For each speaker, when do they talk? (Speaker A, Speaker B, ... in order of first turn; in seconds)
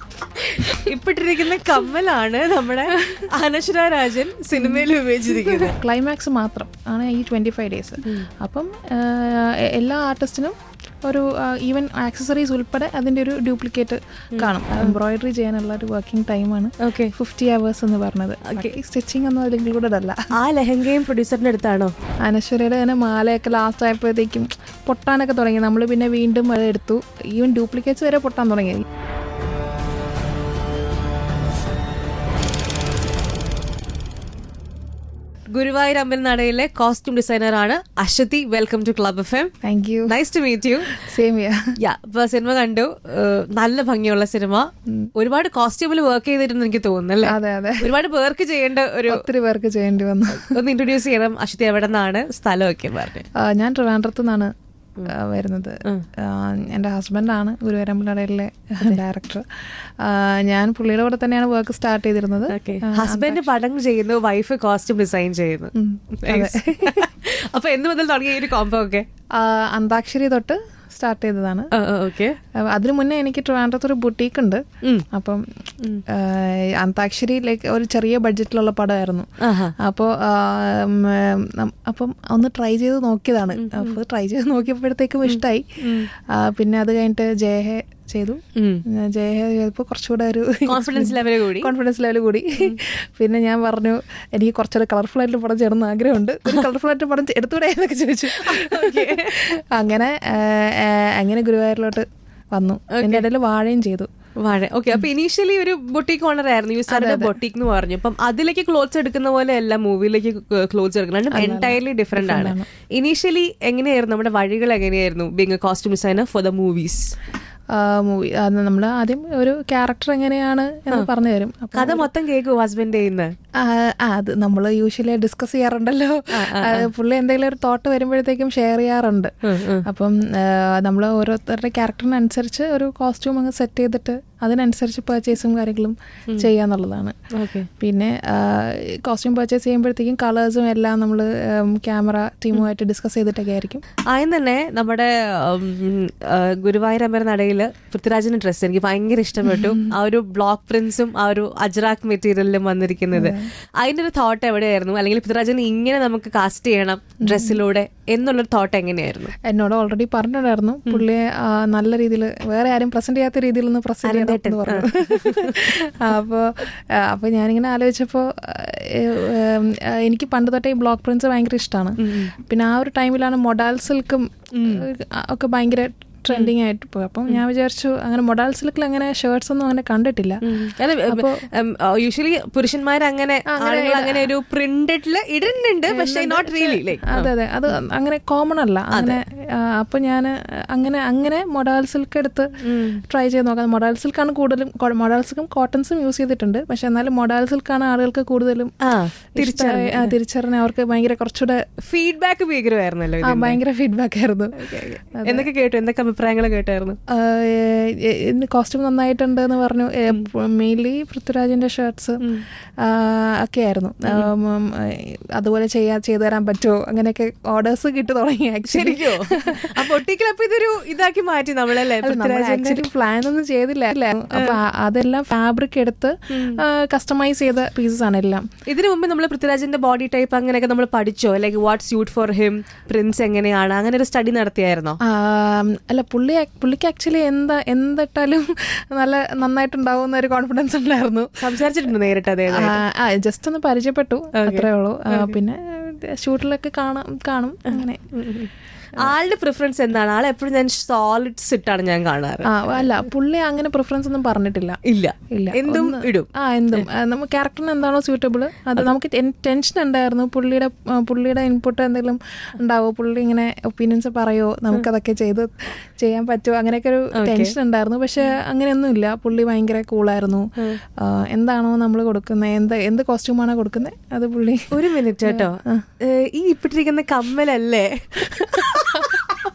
Speaker A: 0.7-5.8, 14.3-15.0, 16.8-17.1, 18.4-18.7, 20.4-21.9, 35.5-39.5, 40.1-41.0, 41.8-49.2, 50.3-53.2, 62.5-69.0, 71.7-72.3, 79.4-79.7, 83.5-84.0, 85.3-86.1, 88.5-88.8, 90.7-91.7, 98.3-99.4, 102.9-103.2, 104.4-117.1, 121.7-123.3, 126.3-126.9, 129.4-129.8, 137.3-137.7, 144.1-159.3, 164.0-165.6, 172.0-172.3, 174.5-174.8, 180.4-187.3, 188.9-189.2, 192.6-193.0, 198.8-200.1, 201.8-203.6, 205.2-207.0, 218.7-222.8, 228.7-235.0, 241.4-242.8, 244.3-245.3, 247.7-252.8, 254.8-256.9, 267.1-267.5, 274.7-279.3
Speaker B: 3.0-3.2, 4.5-20.2, 22.2-28.8, 39.6-40.1, 40.9-41.6, 47.2-47.9, 49.1-50.6, 53.3-54.5, 55.0-63.5, 65.7-67.1, 69.3-71.7, 72.6-75.4, 76.1-79.3, 79.8-104.1, 106.9-107.3, 111.3-112.7, 117.7-122.1, 123.6-137.2, 137.8-143.8, 149.4-149.9, 153.1-153.5, 157.2-157.6, 159.4-180.4, 181.1-181.4, 183.5-184.3, 185.9-198.7, 199.3-201.6, 203.2-205.5, 207.1-212.2, 212.8-219.9, 222.0-228.4, 235.0-241.6, 242.5-248.0, 252.5-254.8, 255.3-275.9, 278.5-279.3